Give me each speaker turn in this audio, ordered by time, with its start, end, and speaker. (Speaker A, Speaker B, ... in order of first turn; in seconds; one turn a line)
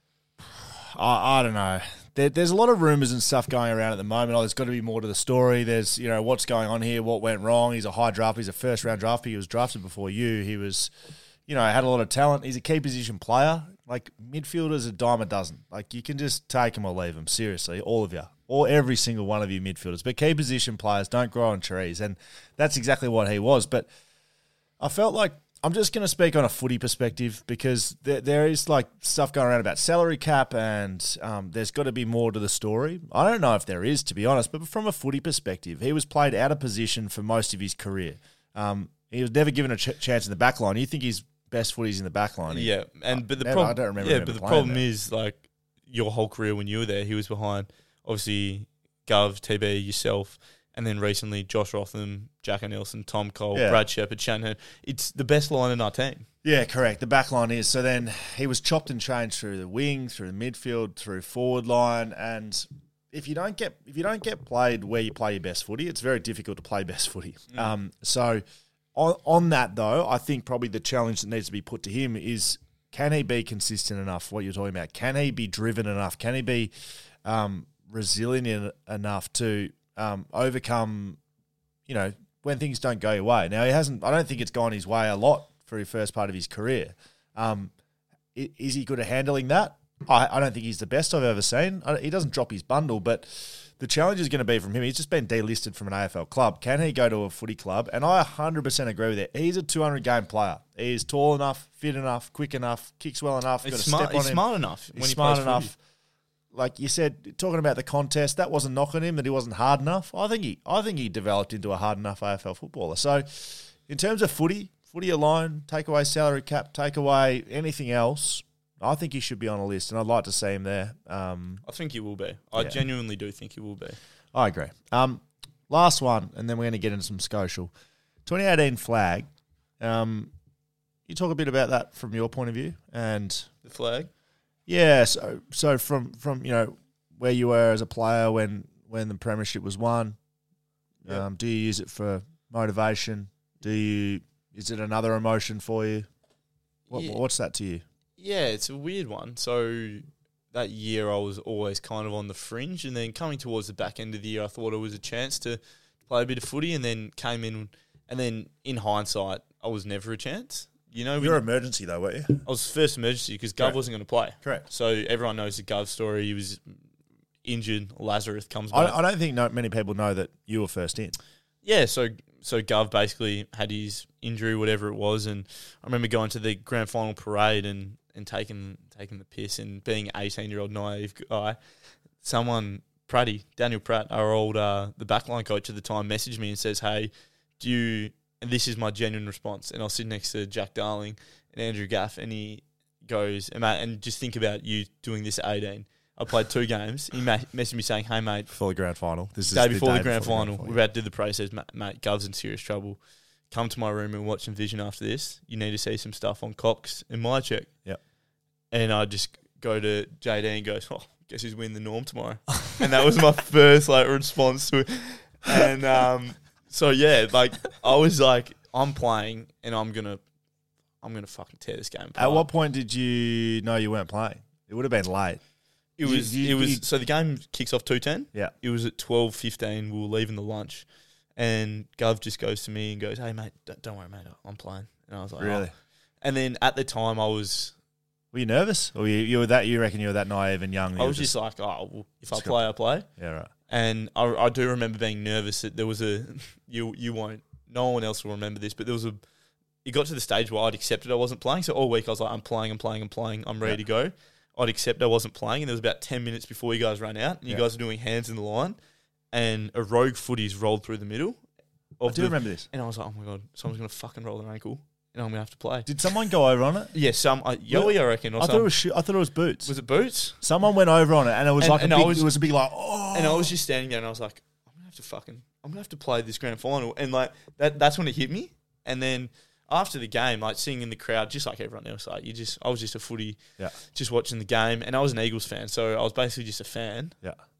Speaker A: 0.4-10.9
Speaker A: 11.5-23.9
Speaker A: 24.8-44.8
Speaker B: 42.5-56.2
Speaker A: 53.5-53.8
Speaker A: 56.4-68.4
Speaker A: 68.9-76.7
Speaker A: 77.2-81.2
Speaker A: 81.9-87.7
Speaker A: 88.3-104.4
Speaker B: 103.6-105.7
Speaker A: 104.9-105.7
Speaker A: 106.5-121.6
Speaker B: 121.7-124.0
Speaker A: 124.3-127.7
Speaker A: 128.2-129.3
Speaker A: 129.8-130.3
Speaker A: 131.1-133.5
Speaker B: 133.6-134.1
Speaker A: 134.7-140.2
Speaker A: 141.0-146.1
Speaker B: 146.9-147.2
Speaker A: 146.9-147.8
Speaker B: 148.2-161.4
Speaker A: 161.2-162.4
Speaker B: 162.4-166.6
Speaker A: 164.4-164.7
Speaker B: 167.4-169.0
Speaker A: 168.7-171.2
Speaker B: 171.6-181.6
Speaker B: 182.2-198.5
Speaker A: 198.5-200.8
Speaker B: 199.5-203.0
Speaker B: 203.5-207.7
Speaker B: 208.7-220.2
Speaker B: 221.0-222.4
Speaker A: 222.2-225.4
Speaker B: 226.0-230.8
Speaker A: 226.0-226.8
Speaker B: 231.4-235.7
Speaker A: 235.4-235.7
Speaker B: 236.2-237.7
Speaker A: 238.3-241.3
Speaker B: 241.0-243.1
Speaker A: 242.3-242.6
Speaker A: 243.2-243.5
Speaker B: 243.7-249.2
Speaker B: 249.8-258.8
Speaker B: 259.3-261.4
Speaker B: 262.0-265.9
Speaker A: 262.1-262.7
Speaker A: 265.9-266.9
Speaker B: 266.9-268.7
Speaker A: 267.7-269.7
Speaker B: 269.6-270.4
Speaker A: 270.4-273.5
Speaker B: 271.6-272.3
Speaker B: 273.1-283.4
Speaker B: 283.9-287.1